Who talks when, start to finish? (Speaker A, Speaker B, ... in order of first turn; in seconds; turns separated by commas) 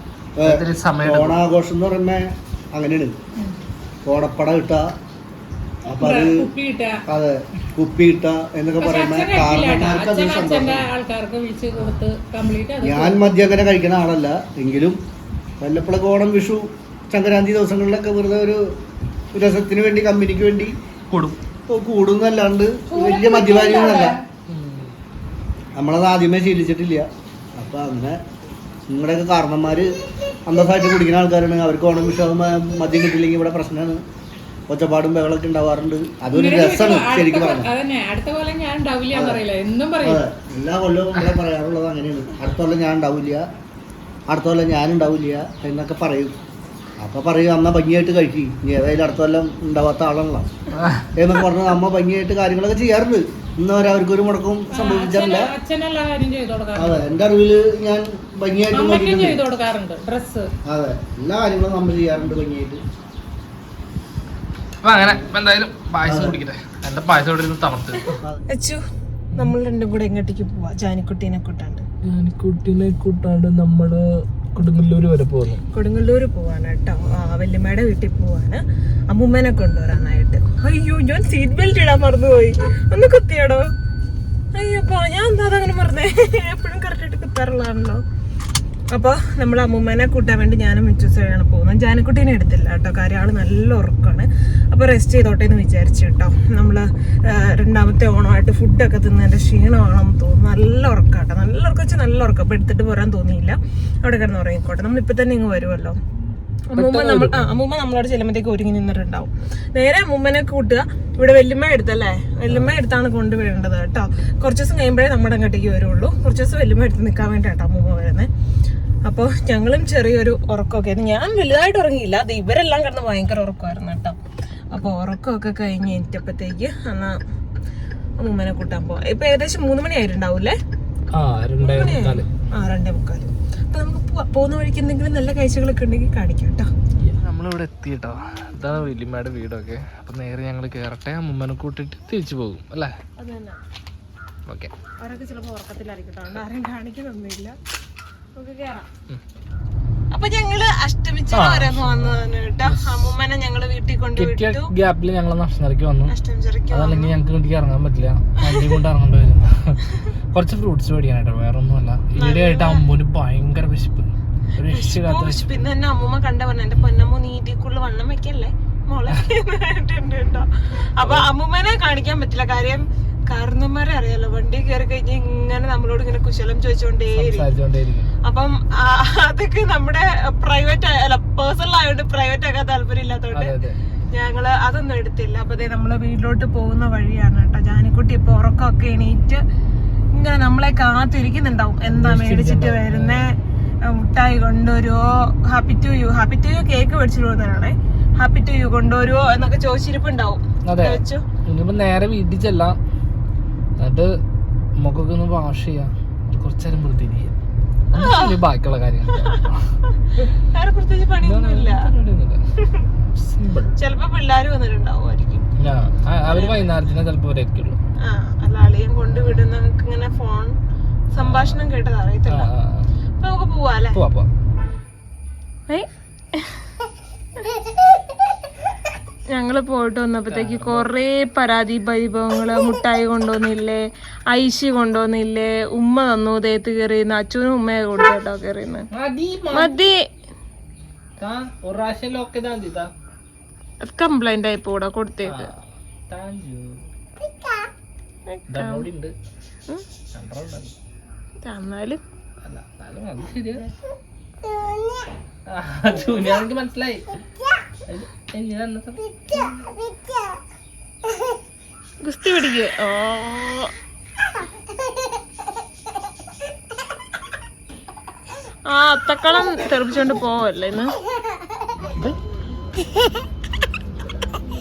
Speaker A: 0.4-3.2, Speaker B: 0.5-1.4, Speaker A: 4.0-5.0, Speaker C: 5.9-7.0, Speaker A: 5.9-6.5, Speaker A: 7.1-10.9, Speaker C: 8.8-13.3, Speaker B: 11.7-12.1, Speaker A: 12.8-15.0, Speaker A: 15.6-18.8, Speaker A: 19.3-20.8, Speaker B: 21.1-21.4, Speaker A: 21.7-24.2, Speaker C: 22.9-24.2, Speaker B: 24.5-25.0, Speaker A: 25.8-28.2, Speaker A: 28.9-29.9, Speaker A: 30.4-34.0, Speaker A: 34.7-37.7, Speaker C: 36.3-40.2, Speaker A: 39.1-39.4, Speaker A: 40.0-43.5, Speaker A: 44.3-46.4, Speaker A: 47.0-50.5, Speaker B: 50.8-51.1, Speaker A: 51.1-55.5, Speaker C: 54.7-57.0, Speaker A: 56.8-59.4, Speaker C: 58.7-60.5, Speaker A: 60.7-62.8, Speaker B: 64.8-68.2, Speaker A: 66.1-66.4, Speaker D: 68.5-68.8, Speaker D: 69.3-71.8, Speaker B: 72.0-75.6, Speaker D: 75.7-83.7, Speaker D: 84.5-88.0, Speaker D: 88.9-106.0, Speaker D: 106.7-118.3, Speaker B: 106.8-107.6, Speaker B: 112.5-112.8, Speaker D: 119.0-124.2, Speaker D: 124.7-127.2, Speaker D: 128.2-130.6, Speaker B: 131.1-132.3, Speaker D: 131.6-136.7, Speaker B: 137.0-142.9, Speaker D: 143.2-143.6, Speaker D: 145.0-147.6, Speaker D: 148.4-148.9, Speaker D: 150.1-154.7, Speaker B: 151.3-153.1, Speaker B: 154.2-156.1, Speaker D: 156.1-157.2, Speaker B: 156.7-159.8, Speaker D: 158.5-158.8, Speaker B: 160.3-165.7, Speaker D: 162.2-162.8, Speaker D: 164.7-177.5, Speaker B: 171.0-171.3, Speaker B: 177.2-178.1, Speaker D: 178.2-183.6, Speaker B: 183.3-183.8, Speaker D: 184.1-189.4, Speaker D: 190.1-201.2, Speaker B: 191.9-193.3, Speaker B: 200.7-202.8, Speaker B: 203.8-204.1, Speaker B: 204.8-207.3, Speaker B: 207.9-209.6, Speaker D: 207.9-208.4, Speaker D: 210.5-211.8, Speaker B: 211.2-212.4, Speaker D: 212.6-212.9, Speaker B: 213.2-213.7, Speaker D: 213.8-215.5, Speaker B: 215.6-217.8, Speaker D: 216.3-216.7, Speaker D: 218.0-220.6, Speaker B: 219.1-219.4, Speaker D: 221.1-222.5, Speaker B: 221.2-221.7, Speaker B: 222.3-222.9, Speaker D: 223.2-224.0, Speaker B: 223.9-224.3, Speaker D: 225.7-226.7, Speaker D: 229.3-238.9, Speaker B: 230.3-230.9, Speaker C: 239.0-239.5, Speaker B: 239.1-239.7, Speaker D: 239.5-240.1, Speaker B: 241.2-242.9, Speaker D: 243.9-245.5, Speaker B: 245.2-246.8, Speaker D: 248.3-248.9, Speaker B: 248.5-249.1, Speaker B: 250.1-250.7, Speaker D: 251.4-252.0, Speaker B: 252.4-253.7, Speaker B: 255.5-257.1, Speaker B: 257.9-259.2, Speaker D: 262.0-263.7, Speaker D: 268.7-270.9